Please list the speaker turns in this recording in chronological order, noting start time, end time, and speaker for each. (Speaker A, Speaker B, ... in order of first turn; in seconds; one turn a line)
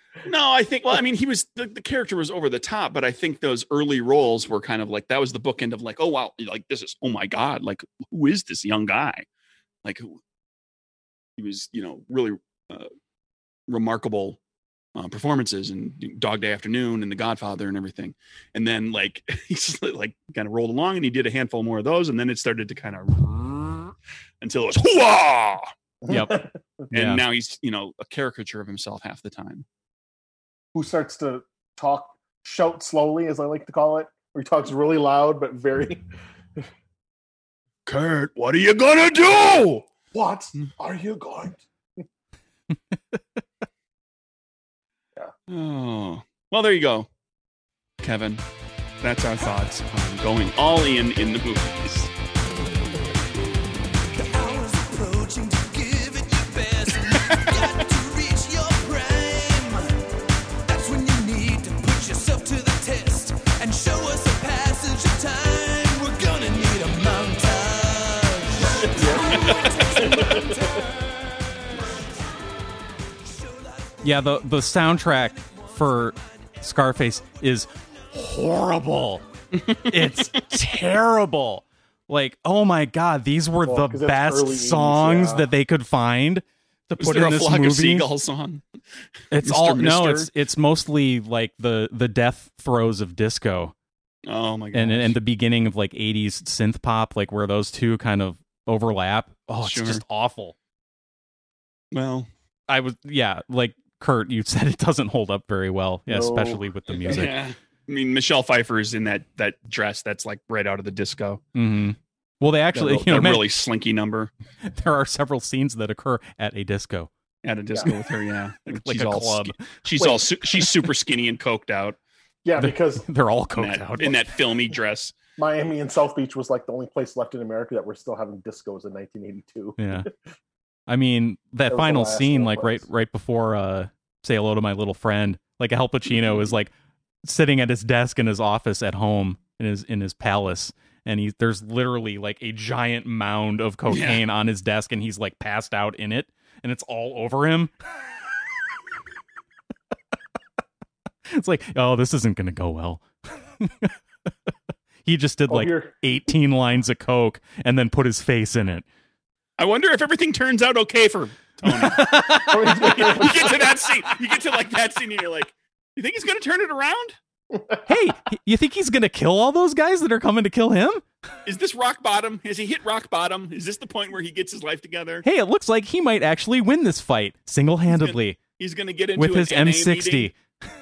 Speaker A: 0.2-9.3
Speaker A: 9.8-10.2
Speaker A: 11.4-12.9
Speaker A: 13.7-14.4
Speaker A: 14.9-25.7
Speaker B: 26.0-26.5
Speaker C: 26.1-27.2
Speaker A: 26.9-29.7
Speaker B: 30.7-36.0
Speaker A: 37.9-39.9
Speaker B: 40.1-41.6
Speaker A: 45.5-47.1
Speaker A: 48.0-48.4
Speaker A: 49.0-52.1
Speaker D: 54.1-60.0
Speaker A: 57.1-57.5
Speaker D: 60.7-72.1
Speaker B: 68.9-70.8
Speaker A: 69.3-70.1
Speaker D: 73.3-74.0
Speaker C: 74.0-79.2
Speaker A: 79.5-80.4
Speaker C: 79.8-88.1
Speaker B: 83.7-85.5
Speaker A: 87.0-88.7
Speaker C: 89.3-93.7
Speaker A: 89.3-90.3
Speaker A: 94.3-95.2
Speaker C: 94.7-100.5
Speaker A: 99.6-100.0
Speaker A: 101.9-102.3
Speaker C: 102.7-107.4
Speaker B: 106.1-107.2
Speaker A: 107.0-111.4
Speaker C: 111.5-113.5
Speaker A: 112.7-114.3
Speaker C: 114.7-117.1
Speaker A: 117.4-122.0
Speaker C: 118.7-120.7
Speaker B: 122.5-123.1
Speaker C: 122.6-124.2
Speaker A: 123.5-125.2
Speaker B: 125.4-130.1
Speaker C: 129.8-130.1
Speaker C: 130.9-136.7
Speaker B: 131.7-132.8
Speaker C: 137.2-147.7
Speaker A: 143.9-144.2
Speaker C: 151.3-153.9
Speaker C: 155.1-158.9
Speaker B: 155.5-155.9
Speaker A: 159.6-167.2
Speaker C: 161.7-163.3
Speaker B: 162.3-163.6
Speaker B: 167.5-167.8
Speaker C: 167.9-171.0
Speaker A: 171.4-175.3
Speaker C: 175.2-178.4
Speaker A: 177.9-180.3
Speaker C: 179.2-180.4